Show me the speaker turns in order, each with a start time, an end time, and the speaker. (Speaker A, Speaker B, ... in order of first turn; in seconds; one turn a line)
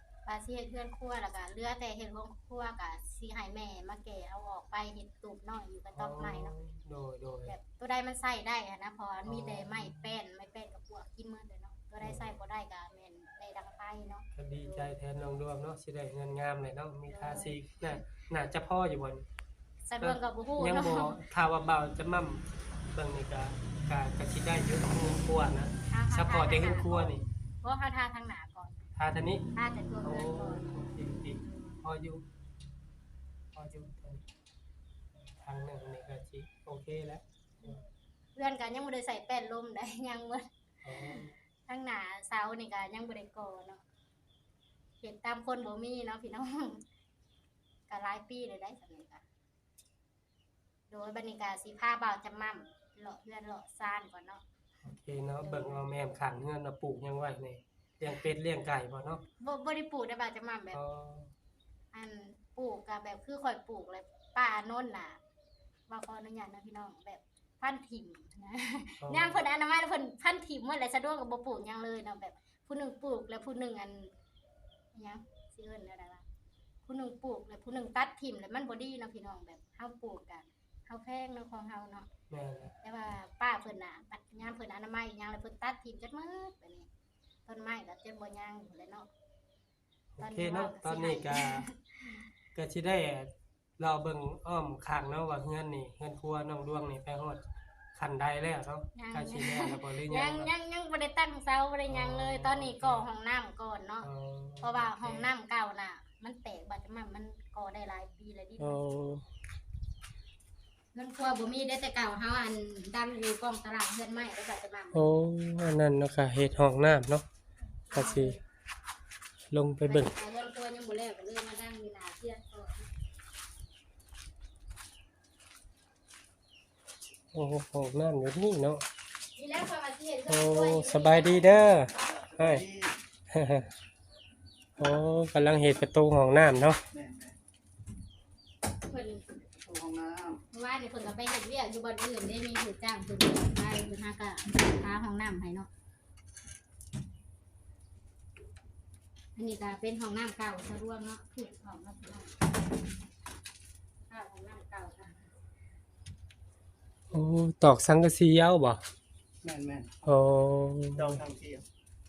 Speaker A: 0.2-6.5
Speaker B: 5.9-7.5
Speaker A: 7.5-14.9
Speaker B: 9.2-10.1
Speaker B: 12.0-12.3
Speaker B: 14.3-19.2
Speaker A: 17.1-17.6
Speaker A: 19.8-21.1
Speaker B: 20.0-27.2
Speaker A: 25.9-28.8
Speaker B: 28.9-29.4
Speaker A: 29.5-30.7
Speaker B: 30.0-32.2
Speaker A: 31.3-31.8
Speaker B: 33.5-34.2
Speaker B: 35.2-37.8
Speaker A: 38.3-40.5
Speaker B: 40.8-41.3
Speaker A: 41.1-43.8
Speaker A: 45.0-46.8
Speaker A: 47.9-49.2
Speaker A: 50.9-54.4
Speaker B: 54.8-59.2
Speaker A: 55.4-55.8
Speaker A: 59.4-60.8
Speaker B: 60.7-61.3
Speaker A: 61.9-65.2
Speaker A: 65.9-74.1
Speaker B: 69.0-69.4
Speaker A: 74.9-76.2
Speaker A: 76.8-82.1
Speaker B: 82.3-82.7
Speaker A: 82.8-86.9
Speaker A: 87.5-89.1
Speaker B: 90.1-91.7
Speaker A: 90.2-92.3
Speaker B: 92.5-97.4
Speaker B: 97.9-100.5
Speaker A: 99.0-104.1
Speaker B: 101.9-103.1
Speaker B: 104.0-105.3
Speaker A: 104.6-108.9
Speaker B: 108.6-109.2
Speaker A: 110.9-115.0
Speaker B: 114.9-117.2
Speaker A: 117.9-118.4
Speaker B: 117.9-118.4
Speaker B: 119.5-120.1
Speaker A: 119.9-122.9
Speaker B: 127.3-128.8
Speaker A: 129.3-131.8
Speaker B: 130.3-132.6
Speaker C: 132.1-133.0
Speaker B: 133.3-133.7
Speaker B: 134.8-136.8
Speaker C: 136.9-137.3
Speaker A: 138.9-139.2
Speaker C: 139.6-140.4
Speaker A: 140.5-145.7
Speaker A: 149.3-152.3
Speaker A: 154.1-155.2
Speaker B: 157.1-158.8
Speaker C: 159.4-160.0
Speaker B: 160.0-161.2
Speaker C: 160.9-161.6